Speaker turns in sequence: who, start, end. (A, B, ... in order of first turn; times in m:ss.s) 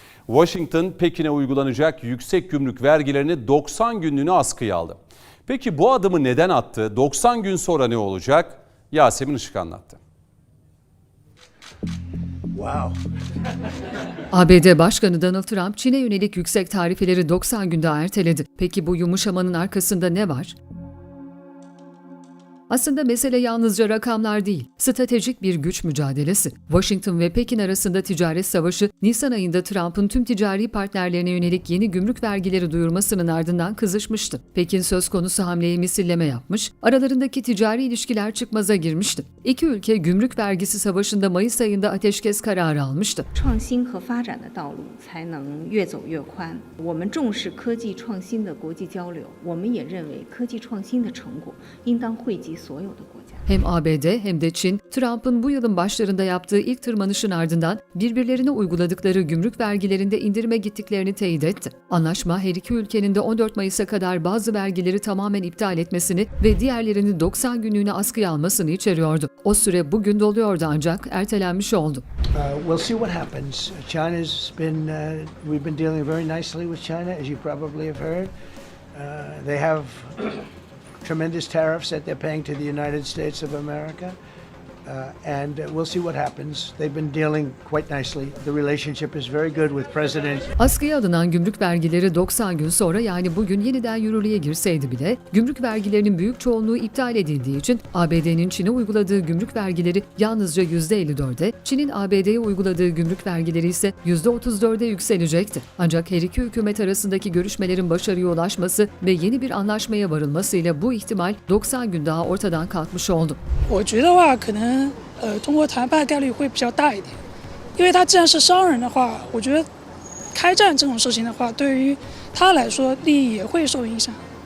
0:00.3-0:10.0 A
0:12.5-0:13.0 B
0:14.3-0:20.6 C
0:22.7-0:43.3 C
0:43.3-0:53.4 D
0:53.4-1:12.0 C
1:12.3-1:18.3 B
1:18.9-1:20.4 B
1:21.0-1:24.2 B
1:24.8-1:30.5 B
1:30.6-1:53.4 C
1:53.7-1:57.2 E
1:57.8-1:59.7 E
2:00.3-2:04.2 E